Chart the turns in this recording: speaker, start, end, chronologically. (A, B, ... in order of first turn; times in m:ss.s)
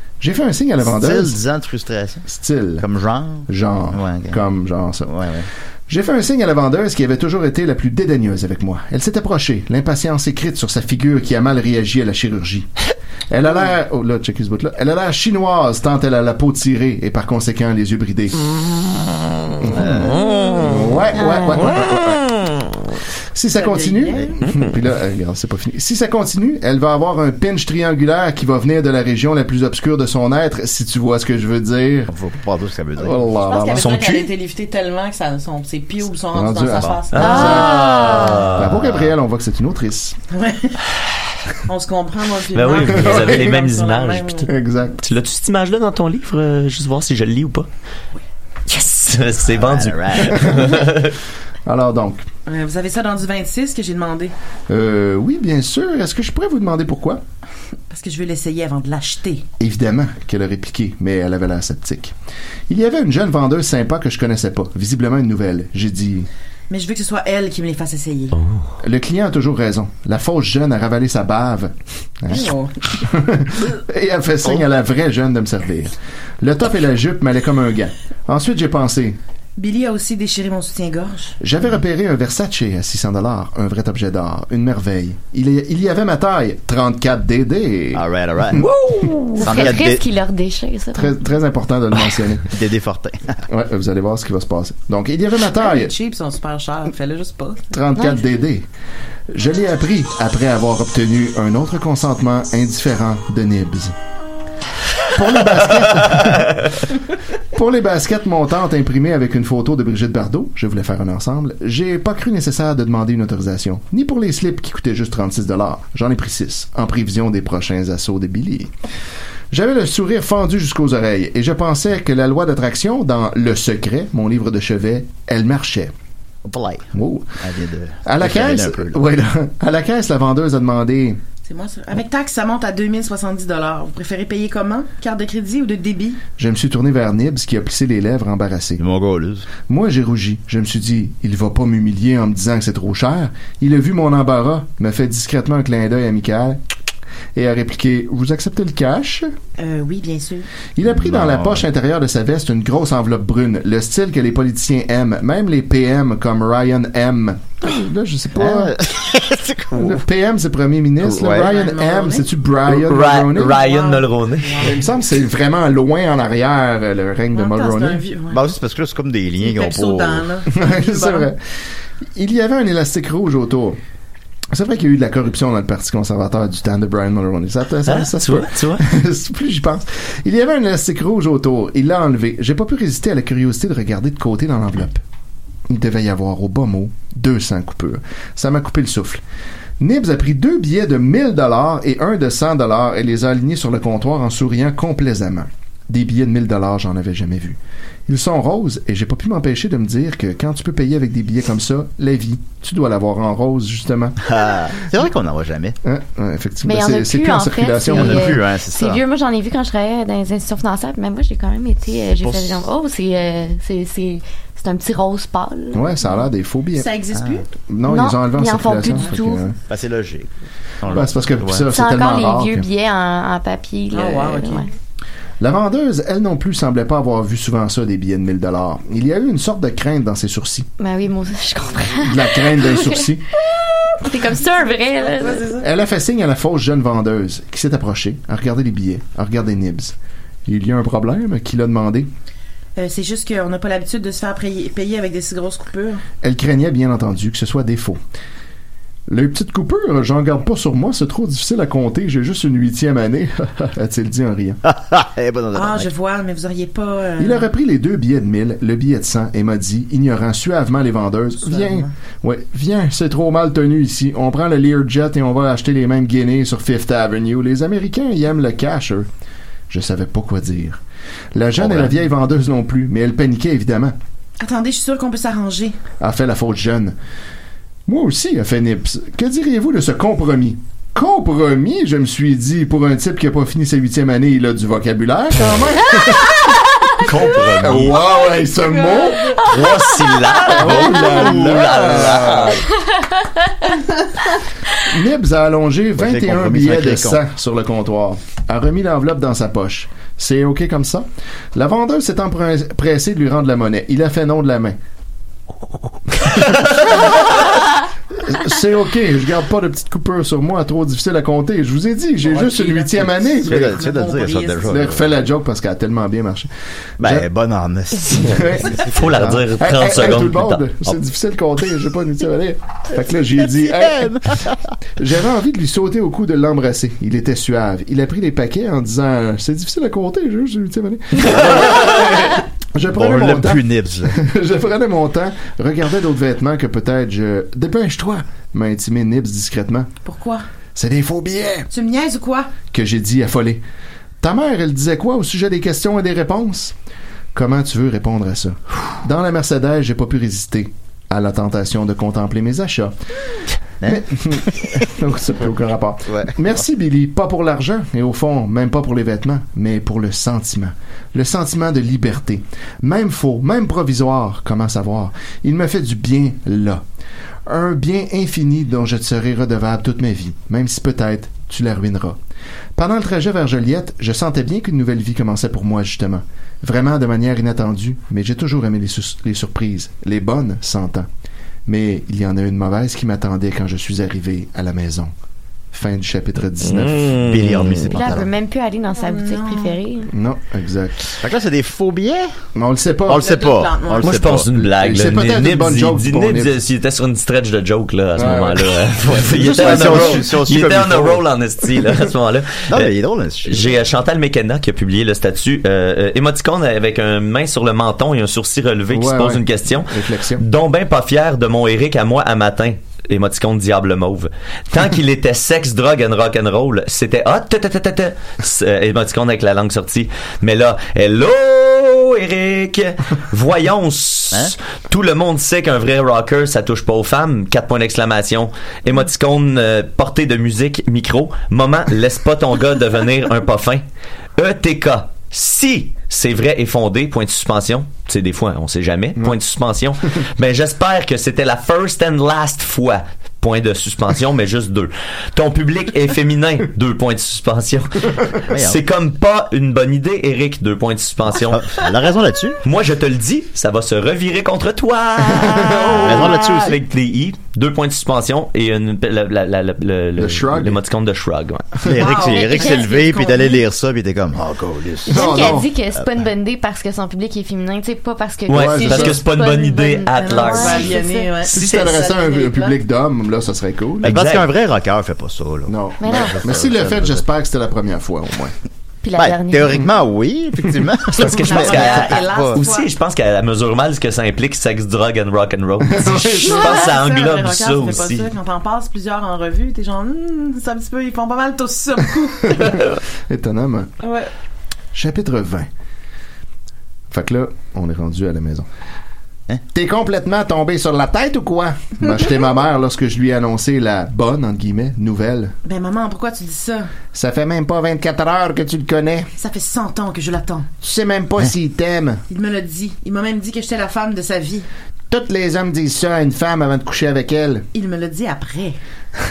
0:00.2-0:01.4 A
0:00.8-0:02.3 B
0:02.3-0:02.9 A
0:02.8-0:04.4 B
0:03.5-0:05.1 A
0:05.0-0:05.5 B
0:05.9-0:12.7 A
0:13.3-0:18.5 A
0:19.6-0:22.2 A
0:19.7-0:20.8 B
0:21.2-0:21.6 C
0:23.4-0:32.1 A
0:23.6-0:24.4 D
0:32.1-0:33.3 B
0:33.0-0:34.1 A
0:33.4-0:37.8 D
0:33.8-0:34.3 E
0:36.3-0:37.8 A
0:36.8-0:37.0 B
0:37.1-0:39.0 E
0:37.2-0:38.5 C
0:38.5-0:40.2 A
0:40.3-0:40.8 D
0:41.7-0:44.5 D
0:42.5-0:44.5 E
0:42.9-0:43.5 A
0:44.5-0:45.0 A
0:45.0-0:47.7 E
0:48.7-0:51.2 E
0:49.5-0:50.6 B
0:50.4-0:50.8 A
0:51.7-0:52.3 A
0:52.5-0:54.4 D
0:54.7-0:57.2 A
0:57.9-0:59.5 D
0:59.6-1:02.2 A
1:02.7-1:06.3 A
1:06.7-1:08.4 D
1:08.4-1:08.6 E
1:08.8-1:19.2 A
1:12.3-1:12.7 D
1:19.6-1:21.4 D
1:21.4-1:29.7 A
1:27.9-1:28.6 B
1:29.3-1:31.2 C
1:29.4-1:30.0 B
1:30.9-1:32.5 A
1:32.5-1:33.4 B
1:33.5-1:35.9 A
1:35.6-1:37.7 D
1:37.7-1:38.7 A
1:39.3-1:44.0 A
1:45.1-1:46.7 A
1:47.5-1:58.7 A
1:59.5-2:05.9 A
2:06.4-2:06.9 B
2:06.9-2:07.3 A
2:07.4-2:09.0 B
2:08.0-2:11.2 A
2:11.4-2:16.2 D
2:16.4-2:18.8 A
2:18.8-2:19.5 B
2:19.7-2:26.6 A
2:27.4-2:29.3 A
2:29.6-2:30.5 D
2:30.8-2:38.8 A
2:30.8-2:31.7 B
2:38.4-2:40.0 B
2:39.7-2:43.6 A
2:41.0-2:41.5 B
2:41.4-2:42.3 D
2:42.7-2:44.8 E
2:43.6-2:44.8 D
2:44.6-2:48.0 A
2:47.3-2:48.5 D
2:48.3-2:50.3 B
2:49.4-2:51.3 D
2:50.5-2:51.4 A
2:52.2-2:53.8 A
2:54.5-3:05.0 A
2:57.9-2:58.9 E
3:05.7-3:09.2 A
3:09.8-3:24.2 A
3:24.2-3:25.8 B
3:25.8-3:28.4 A
3:26.6-3:36.0 C
3:27.9-3:29.0 B
3:32.2-3:32.6 B
3:35.7-3:36.9 A
3:36.8-3:37.5 D
3:37.2-3:37.4 B
3:37.7-3:39.6 A
3:37.8-3:39.5 C
3:39.7-3:41.6 B
3:40.9-3:42.7 A
3:41.7-3:44.7 C
3:43.9-3:44.7 D
3:45.4-3:50.7 A
3:50.8-3:53.1 C
3:51.9-3:53.2 A
3:54.0-3:55.5 C
3:54.6-3:55.7 D
3:55.6-4:02.1 A
4:02.8-4:06.0 D
4:06.2-4:08.0 A
4:09.1-4:14.6 A
4:14.6-4:15.9 B
4:15.5-4:17.5 D
4:17.2-4:29.1 A
4:21.4-4:21.9 D
4:29.7-4:30.8 A
4:31.3-4:34.0 A
4:31.6-4:31.9 B
4:34.4-4:35.8 D
4:36.0-4:37.0 A
4:37.9-4:46.5 A
4:47.0-4:48.0 E
4:47.6-4:49.4 A
4:49.4-4:52.7 E
4:50.5-4:52.6 A
4:51.1-4:52.3 B
4:54.8-5:04.8 A
4:56.0-4:57.2 B
5:06.1-5:07.4 A
5:08.2-5:13.8 A
5:12.2-5:14.8 D
5:13.4-5:15.1 B
5:14.7-5:16.5 A
5:17.0-5:17.3 A
5:17.0-5:19.0 B
5:18.1-5:24.4 A
5:18.8-5:20.7 E
5:23.4-5:24.6 B
5:25.0-5:39.9 A
5:32.9-5:34.2 B
5:40.0-5:40.4 D
5:40.8-5:41.7 A
5:41.7-5:42.6 D
5:42.7-5:43.6 A
5:44.2-5:46.8 A
5:47.3-5:53.0 A
5:53.8-5:54.8 B
5:53.8-6:06.8 A
5:56.1-5:56.4 B
6:07.5-6:12.2 A
6:12.8-6:21.1 A
6:21.7-6:25.1 A
6:25.7-6:27.1 A
6:26.6-6:28.0 E
6:27.2-6:28.3 B
6:27.9-6:30.1 C
6:28.9-6:29.8 D
6:30.1-6:31.2 A
6:31.2-6:32.3 B
6:32.6-6:33.3 A
6:33.1-6:34.5 B
6:33.1-6:34.2 D
6:34.0-6:42.9 E
6:34.8-6:36.6 A
6:38.2-6:40.3 A
6:39.2-6:41.2 B
6:42.7-6:43.8 B
6:43.4-7:13.8 E
6:48.9-6:50.4 A
7:14.4-7:31.9 E
7:28.5-7:28.8 B
7:31.3-7:32.6 B
7:32.6-7:42.2 E
7:35.2-7:36.4 A
7:35.9-7:36.8 B
7:40.2-7:40.8 A
7:41.8-7:46.1 B
7:42.0-7:43.6 D
7:42.4-7:42.7 C
7:45.1-7:45.7 A
7:45.1-7:51.3 C
7:48.5-7:52.0 E
7:48.5-7:49.2 A
7:50.2-7:52.8 D
7:51.5-7:54.2 A
7:54.0-7:57.2 B
7:54.0-7:54.5 E
7:55.7-7:58.5 A
7:56.0-7:56.4 C
7:59.0-7:59.9 C
7:59.2-8:02.6 B
8:01.1-8:08.3 E
8:01.3-8:02.9 D
8:05.9-8:06.8 A
8:06.4-8:12.8 D
8:12.6-8:13.9 A
8:14.0-8:14.3 D
8:14.9-8:15.7 A
8:17.1-8:18.7 A
8:19.7-8:25.6 A
8:25.6-8:27.0 D
8:27.1-8:29.3 A
8:29.4-8:30.7 D
8:30.8-8:32.2 A
8:32.3-8:34.7 D
8:35.1-8:37.7 A
8:37.7-8:38.8 D